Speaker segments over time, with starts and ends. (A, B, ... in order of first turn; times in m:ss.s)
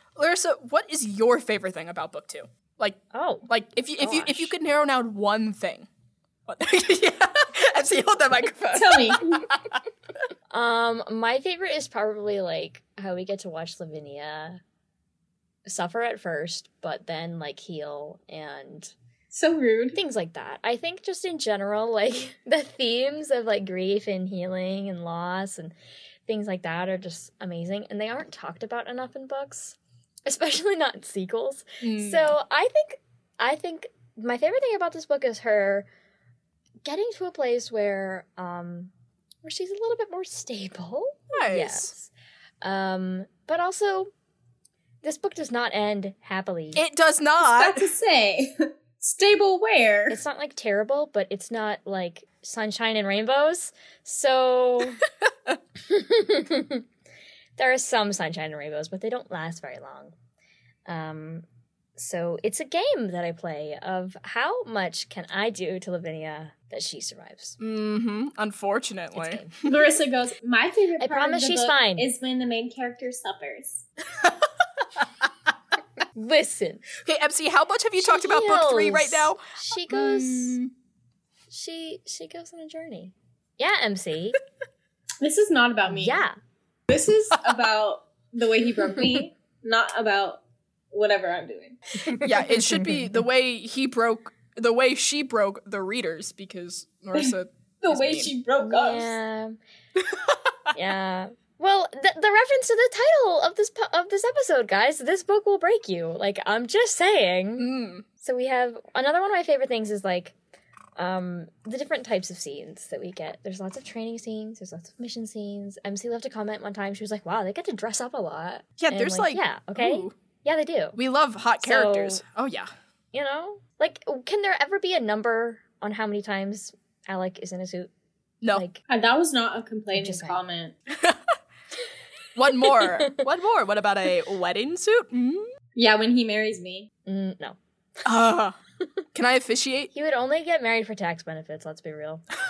0:00.2-0:05.9 A
0:03.1-0:03.5 B
0:04.0-0:04.5 B
0:06.5-0:09.8 A
0:08.7-0:09.5 C
0:10.5-0:14.6 B
0:15.6-0:18.9 B
0:19.3-0:20.0 C
0:20.0-0:25.7 B
0:26.3-0:35.9 B
0:31.8-0:32.4 A
0:36.8-0:38.9 B
0:39.4-0:42.1 B
0:41.3-0:41.9 A
0:42.6-0:44.1 B
0:45.0-0:46.8 B
0:46.8-0:47.9 A
0:47.4-0:50.2 C
0:50.1-0:55.0 B
0:55.2-0:55.6 A
0:55.9-0:56.8 B
0:57.6-1:00.1 B
1:00.9-1:01.4 B
1:02.0-1:07.6 B
1:07.6-1:09.7 A
1:09.1-1:09.6 B
1:09.6-1:13.8 C
1:11.0-1:12.1 B
1:16.2-1:16.9 B
1:17.0-1:20.7 A
1:18.0-1:20.6 B
1:21.5-1:24.4 B
1:25.2-1:26.2 C
1:25.9-1:26.4 B
1:26.9-1:31.8 C
1:32.1-1:33.2 B
1:32.2-1:38.3 A
1:37.1-1:39.2 C
1:38.6-1:39.6 B
1:40.0-1:40.7 A
1:40.7-1:47.7 B
1:47.6-1:48.0 A
1:48.2-1:50.4 B
1:51.0-2:01.0 B
1:58.8-2:00.1 A
2:01.0-2:02.7 A
2:01.6-2:02.2 B
2:03.1-2:07.9 B
2:08.5-2:08.8 B
2:08.9-2:10.8 C
2:09.9-2:10.4 B
2:10.9-2:11.4 A
2:12.4-2:15.5 A
2:12.7-2:13.3 B
2:15.8-2:16.9 C
2:17.1-2:17.6 B
2:18.0-2:18.6 A
2:19.1-2:19.9 A
2:19.9-2:22.2 B